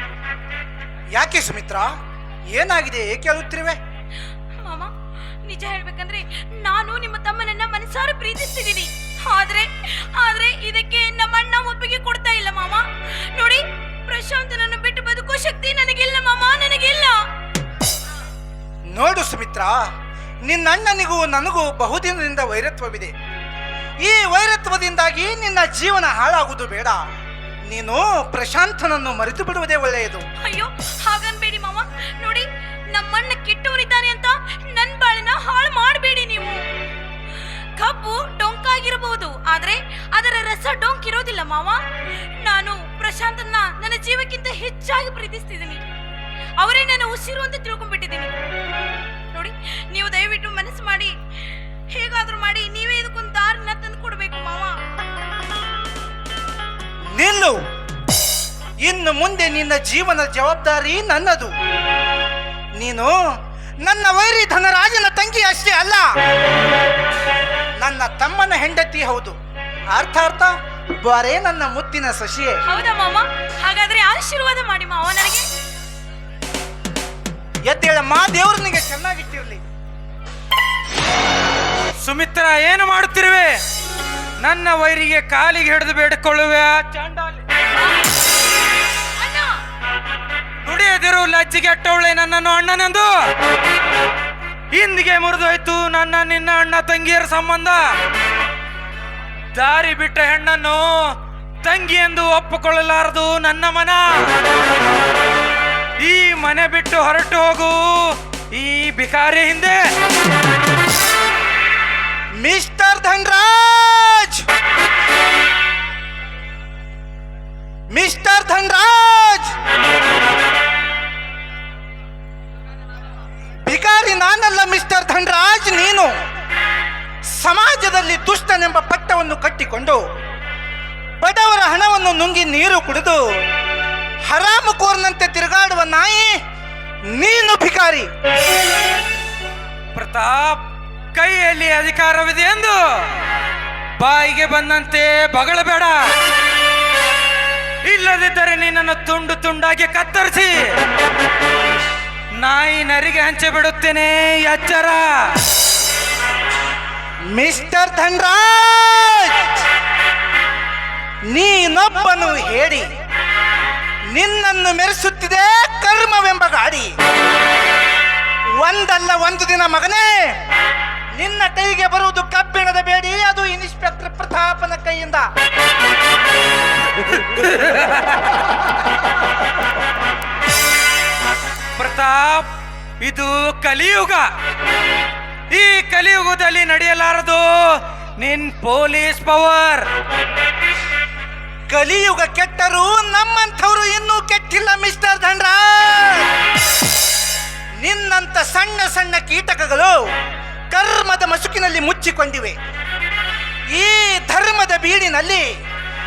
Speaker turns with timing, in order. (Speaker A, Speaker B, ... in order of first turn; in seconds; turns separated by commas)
Speaker A: 1.1-1.9, Speaker A: 2.5-3.8, Speaker B: 4.6-4.9, Speaker B: 5.4-17.2, Speaker A: 18.9-19.8, Speaker A: 20.4-23.1, Speaker A: 24.0-27.0, Speaker A: 27.7-30.2, Speaker B: 30.4-36.6, Speaker B: 37.8-41.8, Speaker B: 42.4-45.8, Speaker B: 46.6-48.3, Speaker B: 49.3-51.1, Speaker B: 51.9-54.7, Speaker A: 57.1-57.6, Speaker A: 58.8-61.5, Speaker A: 62.8-63.1, Speaker A: 63.8-66.0, Speaker A: 67.8-69.3, Speaker A: 69.9-72.6, Speaker B: 72.7-75.5, Speaker A: 77.7-79.6, Speaker C: 82.0-83.5, Speaker C: 84.4-87.4, Speaker B: 87.8-88.0, Speaker B: 89.2-89.5, Speaker C: 90.6-93.1, Speaker C: 94.7-97.8, Speaker C: 99.5-100.9, Speaker C: 101.6-104.3, Speaker C: 106.0-109.8, Speaker A: 112.4-114.4, Speaker A: 117.9-119.5, Speaker A: 123.7-126.2, Speaker A: 127.3-130.0, Speaker A: 131.2-133.2, Speaker A: 134.3-136.4, Speaker A: 137.2-138.1, Speaker C: 139.9-140.6, Speaker C: 141.1-142.8, Speaker C: 144.0-146.0, Speaker C: 147.8-150.6, Speaker C: 152.4-155.3, Speaker A: 157.3-159.5, Speaker A: 161.3-162.9, Speaker A: 164.1-166.9, Speaker A: 168.6-170.4, Speaker A: 171.1-175.2, Speaker C: 177.4-178.1, Speaker C: 181.8-182.5, Speaker C: 183.0-184.2, Speaker C: 185.5-189.8, Speaker A: 191.7-196.3, Speaker A: 197.8-200.0, Speaker A: 200.7-202.6, Speaker A: 203.7-205.5